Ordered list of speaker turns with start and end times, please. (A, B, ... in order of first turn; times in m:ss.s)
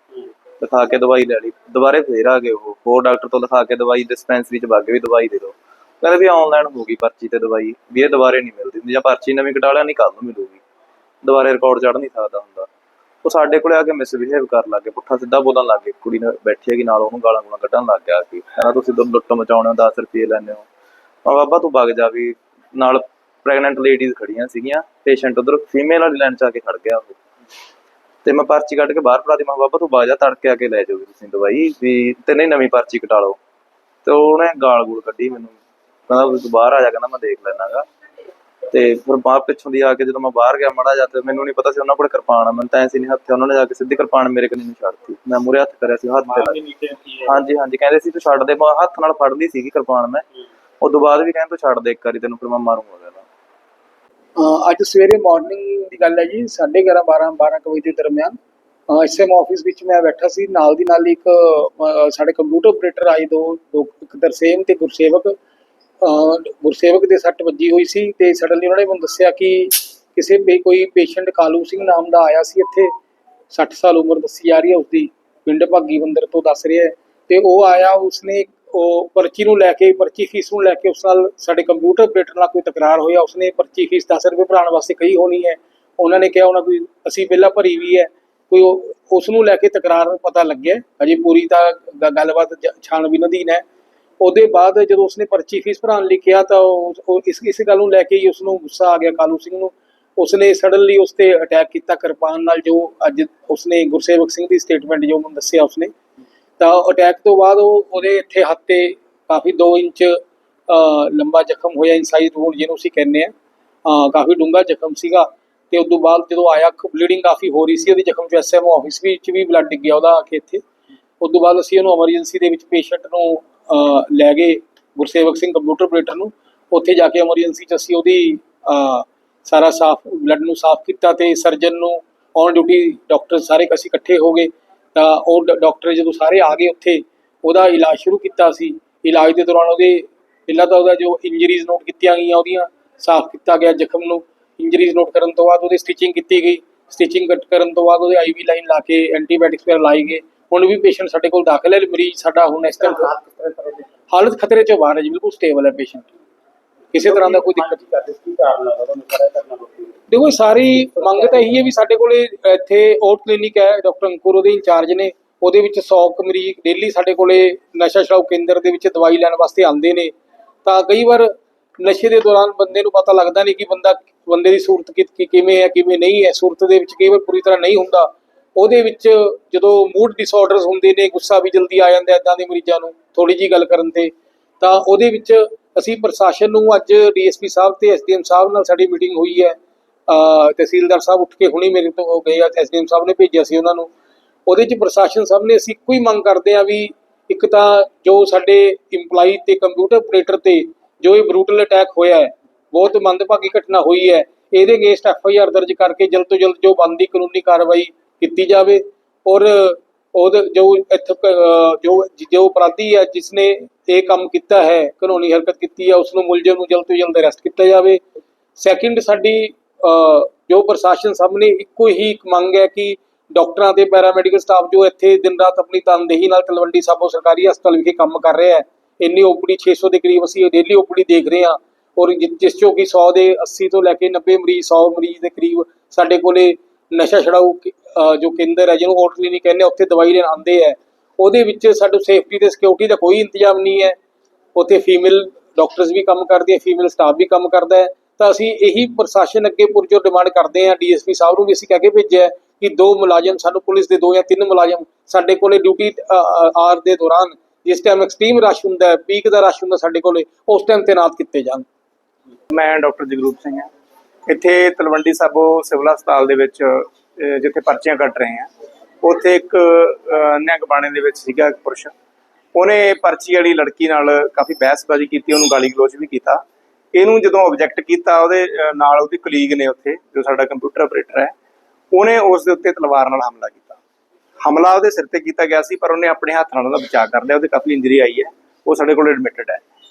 0:00.6-0:10.6 A
0:11.2-0:12.7 A
0:13.2-0:20.6 A
0:21.2-0:27.2 A
0:28.2-0:33.4 A
0:34.0-0:35.5 A
0:36.1-0:37.8 A
0:38.7-0:46.6 A
0:46.2-0:47.4 B
0:47.2-0:50.2 A
0:50.8-0:53.2 A
0:54.4-0:58.4 C
0:58.9-1:05.3 C
1:06.0-1:12.9 C
1:13.5-1:33.6 C
1:34.2-1:45.9 C
1:46.6-1:53.3 C
1:53.8-2:00.6 C
2:01.2-2:33.1 C
2:32.8-2:33.9 B
2:34.1-2:36.1 C
2:36.9-2:37.8 C
2:37.0-2:40.0 B
2:40.1-2:50.1 C
2:40.7-2:41.5 B
2:50.6-3:09.6 C
3:10.1-3:13.9 C
3:14.4-3:38.0 C
3:38.6-4:04.0 C
4:04.5-4:21.6 C
4:22.5-4:23.7 D
4:24.3-4:28.5 D
4:29.0-4:31.9 D
4:32.5-4:36.4 D
4:36.9-4:41.3 D
4:41.9-4:43.8 D
4:44.4-4:49.6 D